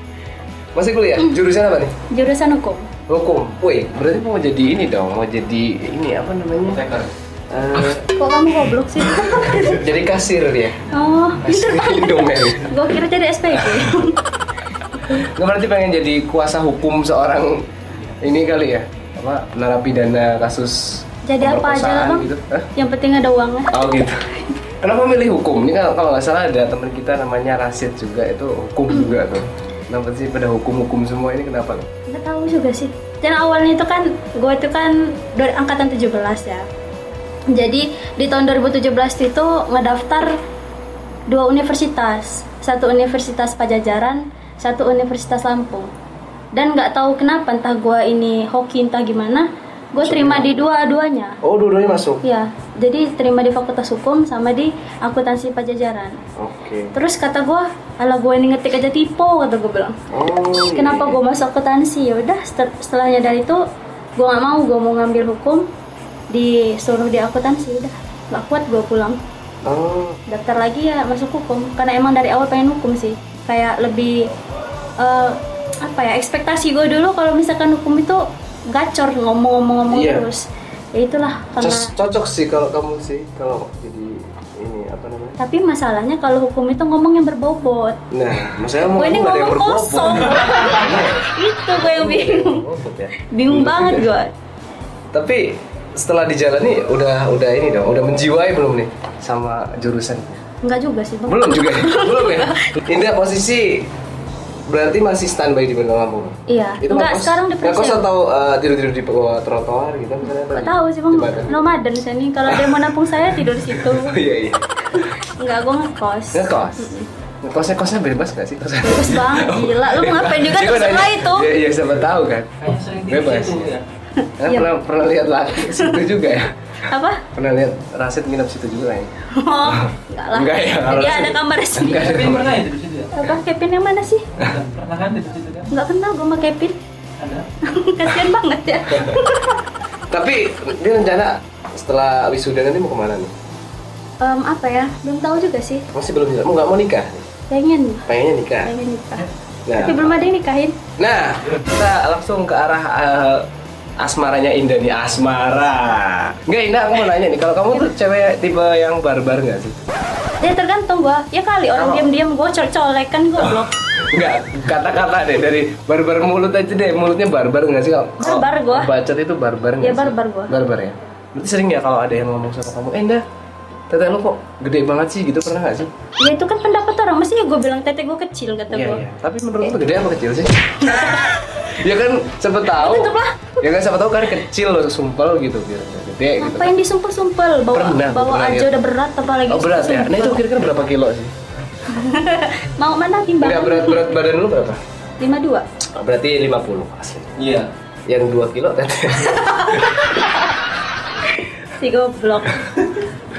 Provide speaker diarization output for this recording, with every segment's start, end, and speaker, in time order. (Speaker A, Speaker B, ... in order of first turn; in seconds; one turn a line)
Speaker A: 0.7-1.9
Speaker B: 2.1-2.9
Speaker A: 3.1-6.8
Speaker C: 6.7-7.1
Speaker A: 7.5-8.1
Speaker B: 8.1-9.8
Speaker A: 9.5-10.8
Speaker B: 10.9-14.2
Speaker A: 11.4-12.8
Speaker A: 13.5-14.1
Speaker A: 15.1-17.6
Speaker A: 18.2-22.7
Speaker B: 21.2-23.9
Speaker A: 23.7-24.2
Speaker A: 24.8-31.9
Speaker B: 28.9-29.2
Speaker B: 32.1-36.7
Speaker B: 37.5-40.4
Speaker B: 41.3-45.9
Speaker B: 46.5-51.4
Speaker A: 50.0-50.7
Speaker A: 51.4-52.2
Speaker B: 52.2-56.2
Speaker A: 56.4-56.9
Speaker B: 56.9-60.0
Speaker A: 60.1-61.2
Speaker B: 60.7-63.6
Speaker B: 64.2-65.6
Speaker B: 66.3-69.2
Speaker A: 69.6-70.2
Speaker B: 70.3-74.3
Speaker B: 75.0-81.9
Speaker A: 79.9-80.3
Speaker A: 81.6-85.4
Speaker B: 85.4-88.0
Speaker A: 88.1-94.1
Speaker B: 88.8-92.6
Speaker B: 93.2-94.3
Speaker A: 95.1-100.4
Speaker B: 100.6-102.8
Speaker A: 101.3-103.9
Speaker A: 104.7-111.7
Speaker B: 106.5-108.0
Speaker B: 110.4-114.2
Speaker A: 112.5-115.1
Speaker B: 114.9-117.1
Speaker A: 116.3-116.9
Speaker A: 117.4-123.7
Speaker B: 118.8-121.5
Speaker C: 122.6-123.8
Speaker B: 124.2-124.7
Speaker A: 124.4-126.6
Speaker B: 125.5-126.0
Speaker B: 126.8-127.2
Speaker A: 127.3-129.1
Speaker B: 129.3-132.3
Speaker A: 129.6-132.6
Speaker C: 131.9-133.2
Speaker B: 133.1-134.3
Speaker C: 134.4-135.7
Speaker B: 135.7-136.8
Speaker C: 137.2-137.4
Speaker B: 137.6-139.6
Speaker A: 138.9-139.2
Speaker A: 140.1-143.3
Speaker B: 144.2-145.8
Speaker A: 145.9-147.3
Speaker B: 147.5-148.0
Speaker A: 148.0-148.7
Speaker B: 148.6-150.8
Speaker A: 149.7-150.1
Speaker A: 151.0-153.5
Speaker A: 154.0-159.8
Speaker B: 160.4-163.7
Speaker A: 161.7-162.1
Speaker A: 163.4-173.2
Speaker B: 168.2-168.9
Speaker B: 169.8-170.5
Speaker A: 173.9-175.9
Speaker B: 176.2-179.0
Speaker A: 178.7-186.7
Speaker B: 180.8-181.7
Speaker B: 182.7-183.6
Speaker B: 186.4-190.4
Speaker A: 187.7-188.8
Speaker A: 189.5-191.3
Speaker B: 191.8-194.2
Speaker A: 193.4-194.8
Speaker B: 195.2-195.6
Speaker A: 195.9-197.3
Speaker C: 197.4-197.7
Speaker A: 198.1-200.1
Speaker B: 199.3-200.3
Speaker B: 201.3-203.0